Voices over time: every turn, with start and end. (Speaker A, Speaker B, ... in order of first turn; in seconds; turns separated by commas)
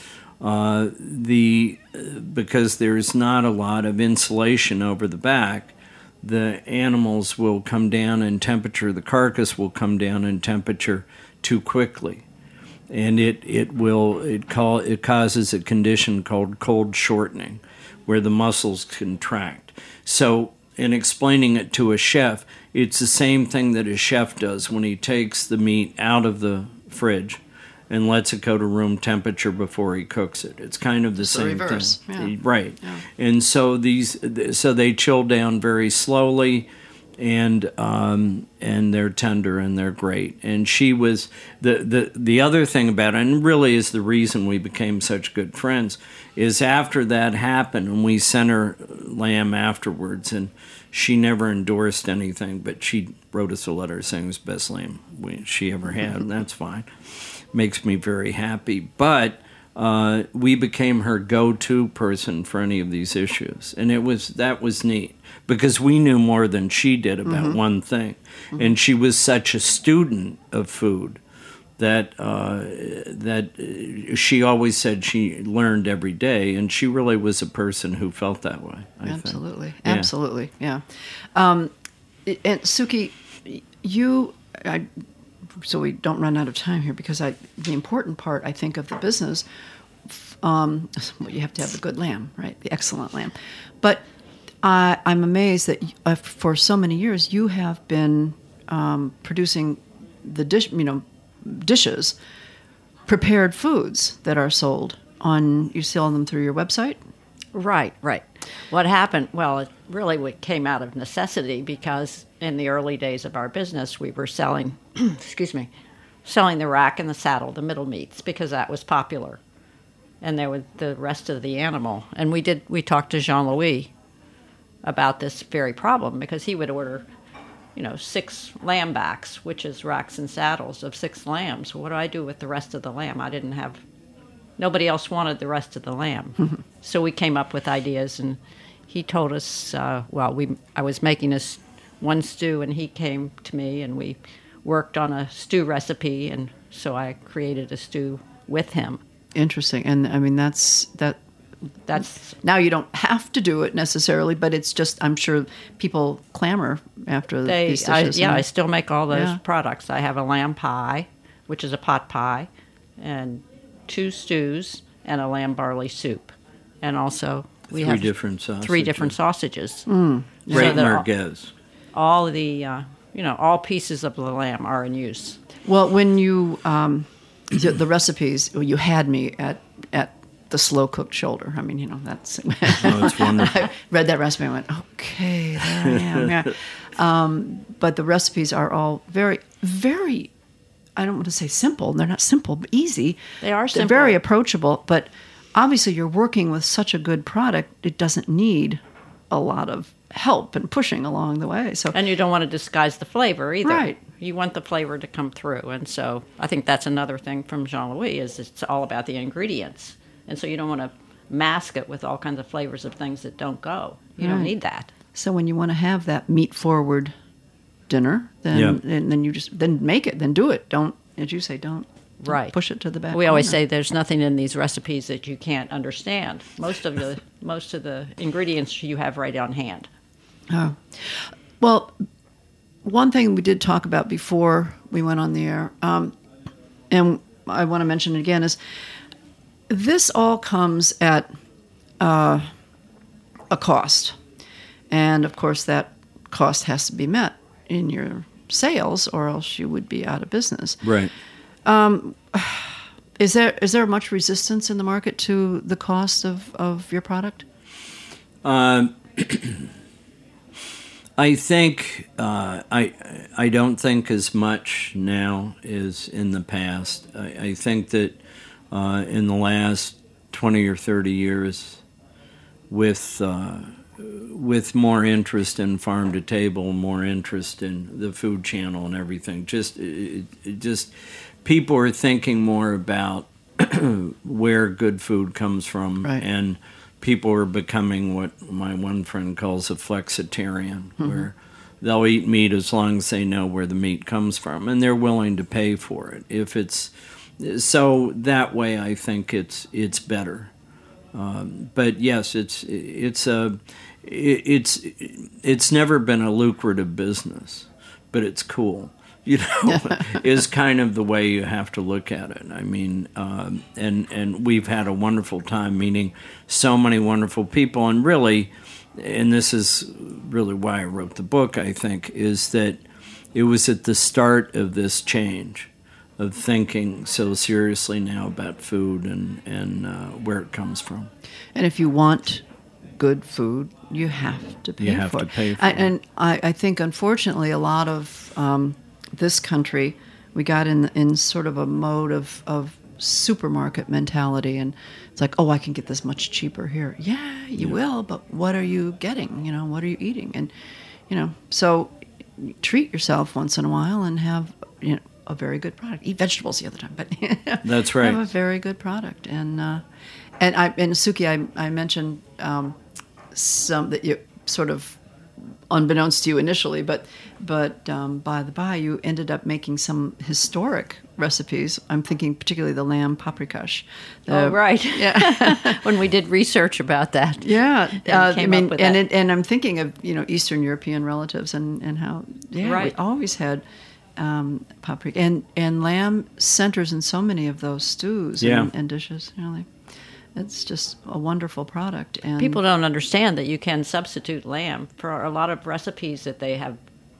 Speaker A: 0.4-12.2, Speaker A: 12.9-71.2, Speaker B: 31.2-33.0, Speaker B: 67.2-67.6, Speaker A: 71.8-80.1, Speaker B: 79.0-80.8, Speaker B: 81.3-81.7, Speaker B: 82.2-84.9, Speaker B: 85.6-89.4, Speaker B: 90.0-94.0, Speaker B: 94.6-102.1, Speaker B: 103.1-107.0, Speaker C: 107.5-115.7, Speaker C: 116.2-119.4, Speaker C: 120.2-123.9, Speaker C: 124.8-127.0, Speaker C: 127.8-133.8, Speaker C: 134.6-138.4, Speaker C: 138.9-149.0, Speaker B: 149.3-151.2, Speaker C: 151.9-152.3, Speaker B: 151.9-158.4, Speaker C: 157.4-169.9, Speaker B: 159.1-159.4, Speaker A: 167.7-169.1, Speaker B: 169.9-170.8, Speaker C: 170.5-171.1, Speaker A: 170.5-171.5, Speaker C: 171.9-175.4, Speaker B: 175.6-190.3, Speaker A: 182.8-183.7, Speaker A: 185.8-186.3, Speaker B: 191.0-193.2, Speaker C: 193.4-194.2, Speaker B: 193.7-198.8, Speaker B: 199.3-201.9, Speaker C: 201.9-214.9, Speaker B: 203.6-204.0, Speaker B: 214.2-214.5, Speaker B: 215.1-217.1, Speaker B: 217.9-223.6, Speaker A: 218.5-218.8, Speaker C: 222.2-222.6, Speaker C: 223.1-229.9, Speaker B: 230.5-232.0, Speaker B: 232.8-236.1, Speaker B: 236.9-238.6, Speaker B: 239.7-241.3, Speaker B: 242.0-242.5, Speaker B: 243.5-244.2, Speaker B: 244.9-250.8, Speaker A: 250.8-251.1, Speaker B: 251.6-257.4, Speaker A: 258.4-259.7, Speaker A: 261.2-268.2, Speaker A: 268.7-271.8, Speaker A: 272.7-300.5, Speaker A: 301.1-322.8, Speaker A: 323.3-331.1, Speaker B: 331.5-332.4, Speaker B: 333.0-350.5, Speaker A: 334.8-335.9, Speaker B: 351.1-359.8, Speaker A: 357.6-358.2, Speaker B: 360.4-362.8, Speaker B: 363.3-365.0, Speaker B: 365.7-375.8, Speaker C: 374.3-377.5, Speaker B: 377.4-383.6, Speaker C: 378.0-379.0, Speaker C: 382.6-382.9, Speaker B: 384.2-389.7, Speaker A: 388.4-388.7, Speaker B: 390.4-392.6, Speaker C: 392.4-396.8